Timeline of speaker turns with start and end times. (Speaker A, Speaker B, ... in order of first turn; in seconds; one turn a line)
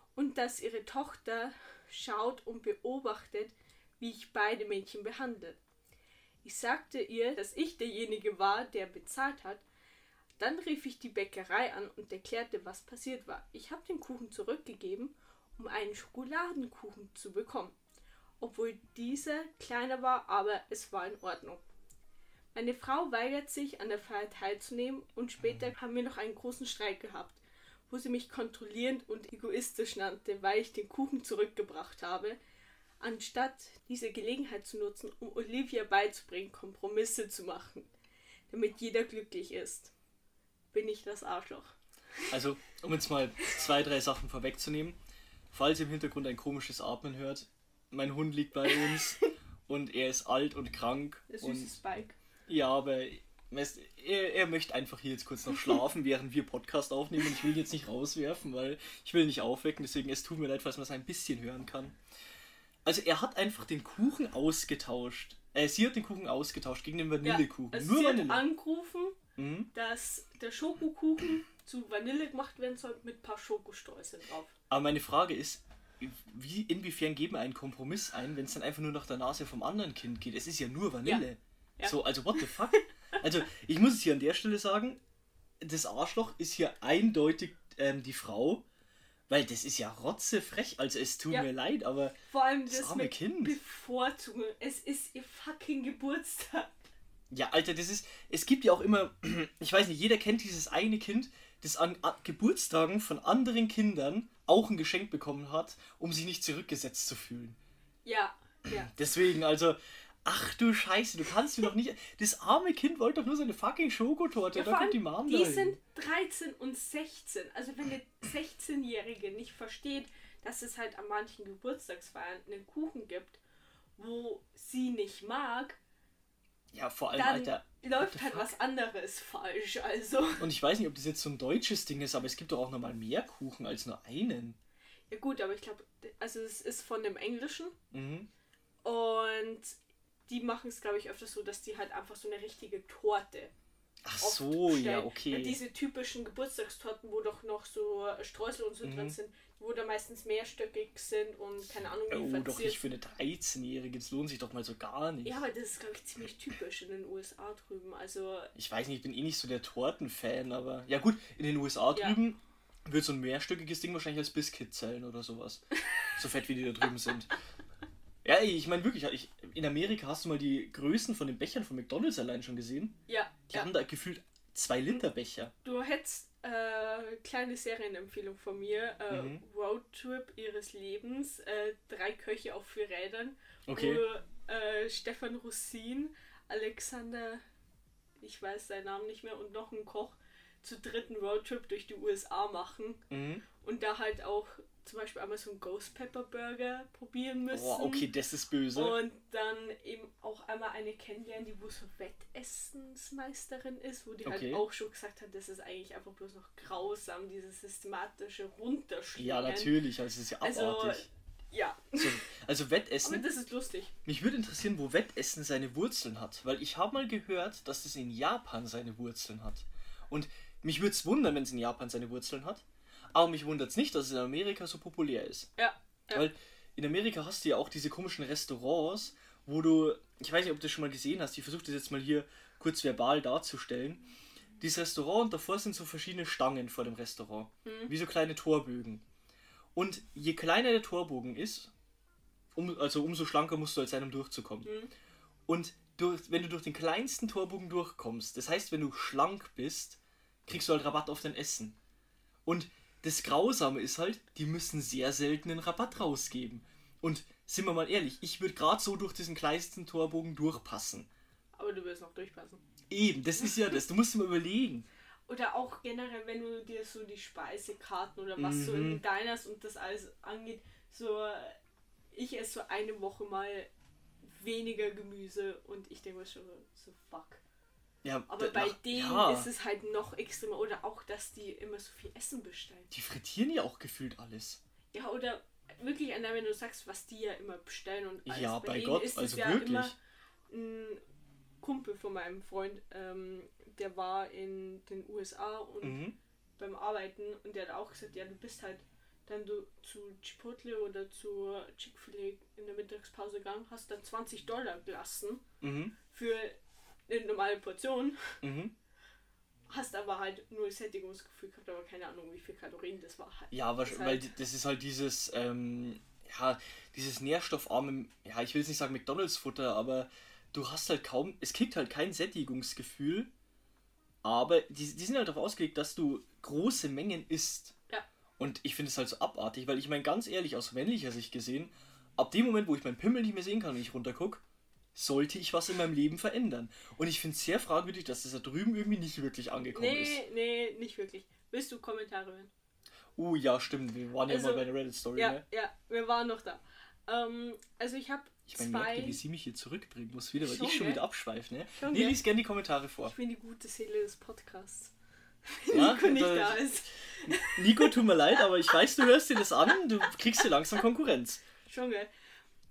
Speaker A: 0.1-5.6
Speaker A: 6.4-9.6
Speaker A: 10.4-17.8
Speaker A: 18.4-21.6
Speaker A: 22.5-32.4
Speaker B: 25.4-25.7
Speaker A: 33.0-37.9
Speaker A: 38.5-39.9
Speaker A: 40.7-42.3
Speaker B: 42.3-45.0
Speaker B: 45.5-51.7
Speaker A: 51.3-52.1
Speaker B: 52.5-62.0
Speaker B: 62.8-68.5
Speaker A: 67.2-69.2
Speaker B: 69.4-69.7
Speaker A: 69.7-74.5
Speaker B: 74.7-85.0
Speaker A: 81.8-82.8
Speaker B: 85.6-88.6
Speaker B: 89.3-92.2
Speaker A: 92.3-96.7
Speaker B: 92.7-93.6
Speaker B: 97.3-107.6
Speaker A: 108.0-108.9
Speaker B: 108.8-115.8
Speaker A: 114.5-123.4
Speaker A: 124.0-125.8
Speaker B: 126.7-128.5
Speaker A: 127.2-130.4
Speaker B: 130.4-134.6
Speaker A: 135.1-137.7
Speaker B: 137.9-138.3
Speaker A: 138.8-139.8
Speaker A: 140.3-143.5
Speaker B: 144.0-145.6
Speaker A: 144.2-152.8
Speaker B: 148.8-149.2
Speaker B: 152.1-155.4
Speaker A: 155.2-158.5
Speaker B: 158.6-165.6
Speaker A: 165.8-166.1
Speaker B: 166.2-167.3
Speaker B: 168.2-173.0
Speaker A: 173.1-173.7
Speaker B: 173.5-175.5
Speaker A: 175.6-187.4
Speaker B: 179.1-179.4
Speaker B: 183.7-184.0
Speaker A: 188.2-193.0
Speaker B: 193.1-193.4
Speaker A: 193.6-198.1
Speaker B: 197.5-199.0
Speaker A: 198.7-209.7
Speaker B: 204.2-204.6
Speaker B: 209.2-211.1
Speaker A: 210.4-212.2
Speaker B: 212.0-213.2
Speaker A: 213.0-213.9
Speaker B: 214.1-225.5
Speaker A: 225.6-226.3
Speaker B: 226.1-234.0
Speaker B: 234.6-239.0
Speaker A: 237.7-237.9
Speaker B: 239.7-241.7
Speaker B: 242.6-244.7
Speaker A: 244.7-244.9
Speaker B: 245.5-251.8
Speaker B: 252.4-261.1
Speaker A: 261.6-262.6
Speaker B: 262.9-264.9
Speaker A: 265.3-271.6
Speaker B: 268.4-269.0
Speaker A: 272.1-273.7
Speaker A: 274.2-277.4
Speaker B: 278.0-279.5
Speaker A: 278.3-282.9
Speaker B: 282.9-284.6
Speaker A: 284.9-290.0
Speaker B: 288.2-289.9
Speaker A: 290.5-291.0
Speaker A: 291.6-296.0
Speaker B: 295.8-296.2
Speaker A: 296.6-305.4
Speaker B: 305.6-306.0
Speaker A: 306.1-308.4
Speaker B: 308.4-308.7
Speaker A: 309.7-314.3
Speaker B: 313.5-323.3
Speaker B: 324.2-327.8
Speaker B: 328.4-334.4
Speaker B: 334.9-340.2
Speaker A: 339.7-342.5
Speaker B: 343.2-345.4
Speaker A: 344.3-349.2
Speaker B: 348.5-353.1
Speaker A: 350.4-351.0
Speaker A: 351.8-352.2
Speaker A: 353.0-354.9
Speaker A: 355.4-358.0
Speaker B: 355.7-356.7
Speaker B: 357.2-361.4
Speaker A: 361.6-362.1